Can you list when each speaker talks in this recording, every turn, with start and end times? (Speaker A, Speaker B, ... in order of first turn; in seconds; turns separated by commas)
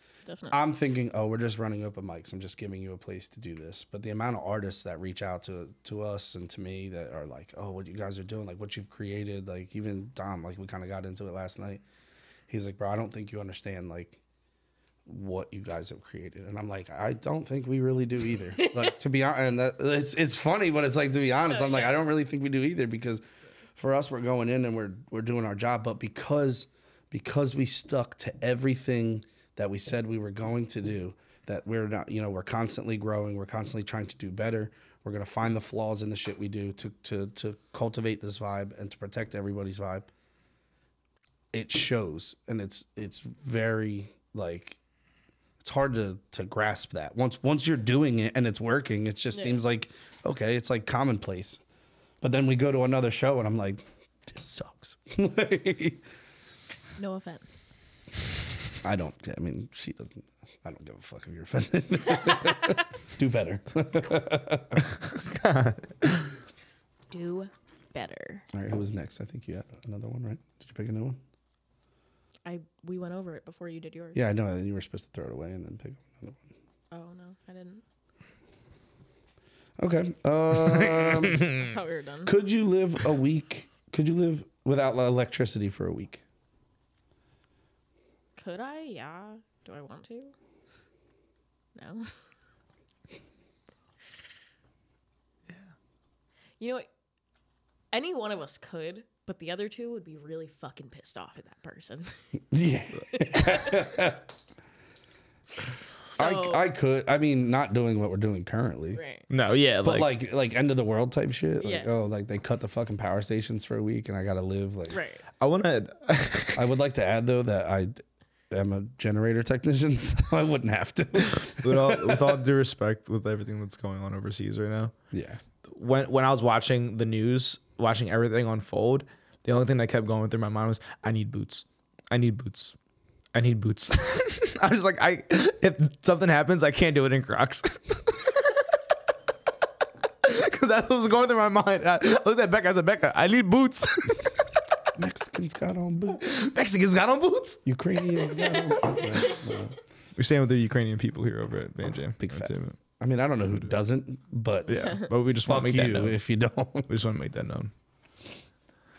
Speaker A: 0.3-0.6, Speaker B: 0.5-11.8, Speaker B: 12.5-14.2, Speaker B: 15.1-23.2, Speaker A: 18.6-18.9, Speaker A: 21.5-22.0, Speaker B: 23.8-40.1, Speaker B: 41.5-44.8, Speaker B: 45.6-51.6, Speaker A: 49.3-49.6, Speaker B: 52.2-56.0, Speaker A: 57.0-57.7, Speaker B: 58.8-64.9, Speaker C: 65.0-66.3, Speaker A: 67.1-68.5, Speaker B: 68.5-71.2, Speaker A: 72.5-74.2, Speaker B: 74.1-76.5, Speaker A: 76.9-77.8, Speaker B: 79.8-81.5, Speaker C: 81.0-81.7, Speaker A: 81.3-82.4, Speaker B: 82.3-86.2, Speaker A: 88.4-90.3, Speaker A: 91.8-92.1, Speaker A: 96.6-96.9, Speaker A: 97.9-102.2, Speaker B: 102.5-104.2, Speaker A: 103.1-104.0, Speaker A: 106.0-106.7, Speaker B: 106.2-109.0, Speaker A: 108.9-109.3, Speaker C: 109.3-110.1, Speaker B: 109.8-115.0, Speaker A: 111.6-111.9, Speaker A: 114.9-115.2, Speaker C: 115.4-116.7, Speaker B: 116.5-122.4, Speaker C: 121.6-124.9, Speaker B: 125.1-125.4, Speaker C: 125.7-132.8, Speaker C: 133.3-138.4, Speaker C: 140.2-144.3, Speaker B: 145.0-146.2, Speaker C: 146.2-147.6, Speaker B: 147.7-149.8, Speaker C: 150.2-152.7, Speaker B: 152.2-156.9, Speaker A: 154.7-155.1, Speaker C: 154.7-156.2, Speaker C: 156.9-157.7